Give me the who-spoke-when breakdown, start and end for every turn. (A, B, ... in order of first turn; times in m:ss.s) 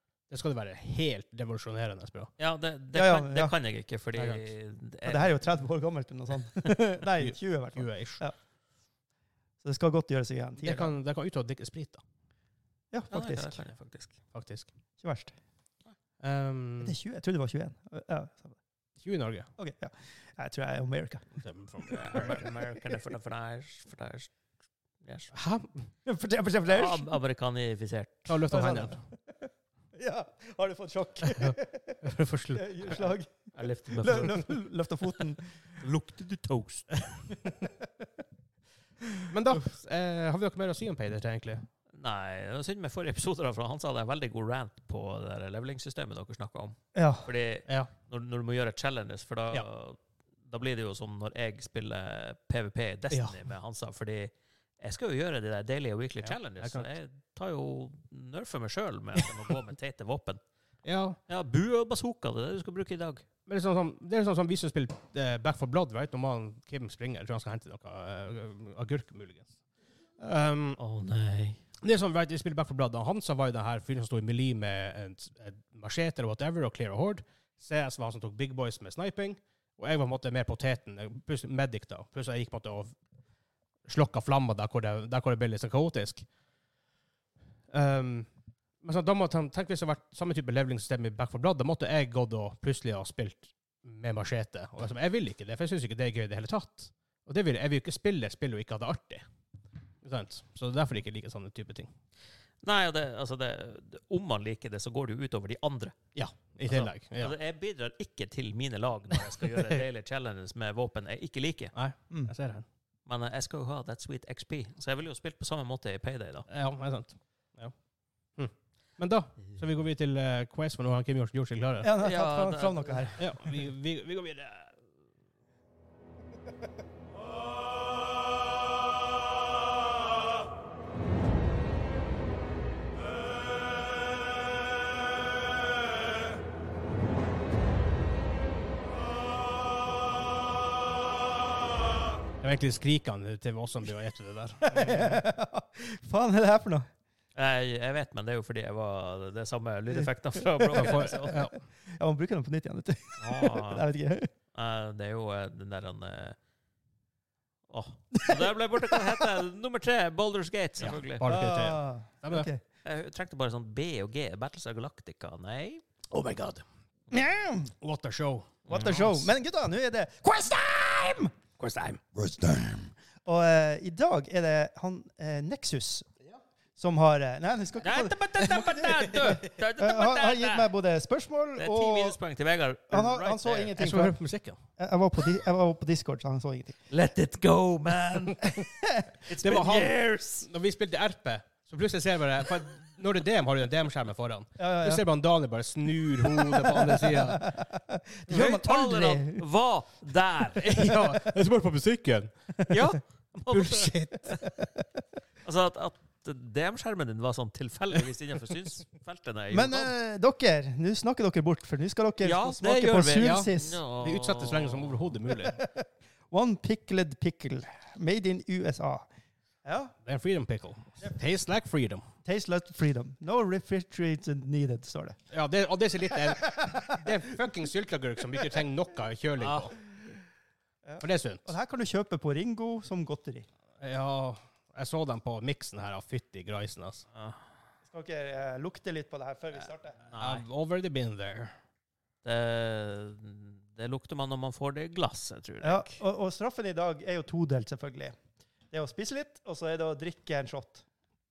0:00.3-0:02.3 A
0:02.4-0:05.3 B
0:02.9-0:03.5 C
0:04.2-0:04.4 A
0:05.0-0:08.3 C
0:07.2-0:08.2 A
0:09.6-0:10.9 C
0:10.6-0:12.0 A
0:12.9-0:13.6 C
0:13.1-0:14.2 B
0:14.3-0:14.7 A
0:15.0-0:15.3 C
0:16.2-0:17.0 A
0:16.8-0:18.6 C
0:19.0-0:19.5 A
0:19.6-0:21.3 C
0:21.4-0:22.4 A
0:21.8-0:24.3 B
0:25.0-0:25.3 B
0:25.3-0:25.8 A
0:26.0-0:27.1 C
0:26.7-0:28.4 B
0:28.3-0:29.0 A
0:28.5-0:32.0 C
0:31.2-0:33.0 A
0:32.5-0:33.3 C
0:33.5-0:34.5 B
0:33.9-0:35.4 C
0:35.8-0:37.2 B
0:39.3-0:41.6 A
0:42.0-1:00.4 B
0:46.9-0:47.3 C
0:53.1-0:53.4 A
0:56.2-0:56.9 A
1:00.8-1:01.2 A
1:01.3-1:03.2 B
1:03.5-1:09.5 A
1:10.2-1:10.8 A
1:10.8-1:11.6 B
1:11.8-1:22.9 A
1:23.8-1:26.2 A
1:27.7-1:28.3 A
1:28.8-1:39.2 A
1:40.0-1:41.9 A
1:42.6-1:46.0 B
1:46.1-1:47.3 A
1:46.6-1:51.7 B
1:51.7-1:52.6 A
1:53.0-1:56.5 B
1:56.5-1:57.7 A
1:58.4-2:01.9 A
2:01.8-2:03.2 C
2:02.0-2:03.2 B
2:03.2-2:04.7 A
2:22.4-2:25.2 A
2:24.6-2:26.9 C
2:27.4-2:31.4 B
2:29.9-2:31.4 C
2:30.7-2:31.6 A
2:32.0-2:34.3 C
2:33.2-2:33.8 B
2:34.5-2:36.4 B
2:37.7-2:41.2 B
2:38.2-2:39.2 C
2:41.1-2:42.5 A
2:41.2-2:42.6 C
2:42.8-2:45.8 B
2:46.1-2:46.6 A
2:47.1-2:47.7 C
2:47.8-2:49.3 A
2:48.7-2:51.3 C
2:48.7-2:49.0 B
2:51.6-2:52.9 A
2:53.2-2:56.1 C
2:56.8-3:02.2 C
2:57.8-3:00.7 B
2:58.9-2:59.3 A
3:01.6-3:03.7 B
3:02.9-3:04.2 C
3:03.7-3:04.6 A
3:04.8-3:06.8 C
3:06.9-3:08.6 B
3:09.2-3:10.5 B
3:09.4-3:17.5 A
3:14.6-3:15.0 C
3:16.3-3:19.4 C
3:18.3-3:18.6 A
3:18.3-3:20.7 B
3:20.6-3:22.3 A
3:20.6-3:21.4 C
3:22.7-3:24.4 B
3:23.5-3:24.4 A
3:24.4-3:24.7 C
3:25.4-3:29.9 B
3:29.5-3:33.8 C
3:32.2-3:35.1 B
3:33.1-3:35.6 A
3:35.4-3:39.0 C
3:39.6-3:39.9 C
3:40.0-3:42.0 A
3:42.2-3:45.2 C
3:45.3-3:49.7 A
3:46.4-3:47.1 C
3:49.4-3:49.7 B
3:50.8-3:53.5 C
3:51.0-3:51.5 A
3:53.8-3:57.0 A
3:57.9-4:00.0 C
4:00.0-4:00.4 B
4:00.2-4:01.5 A
4:02.2-4:06.0 B
4:05.6-4:08.1 C
4:08.7-4:10.8 C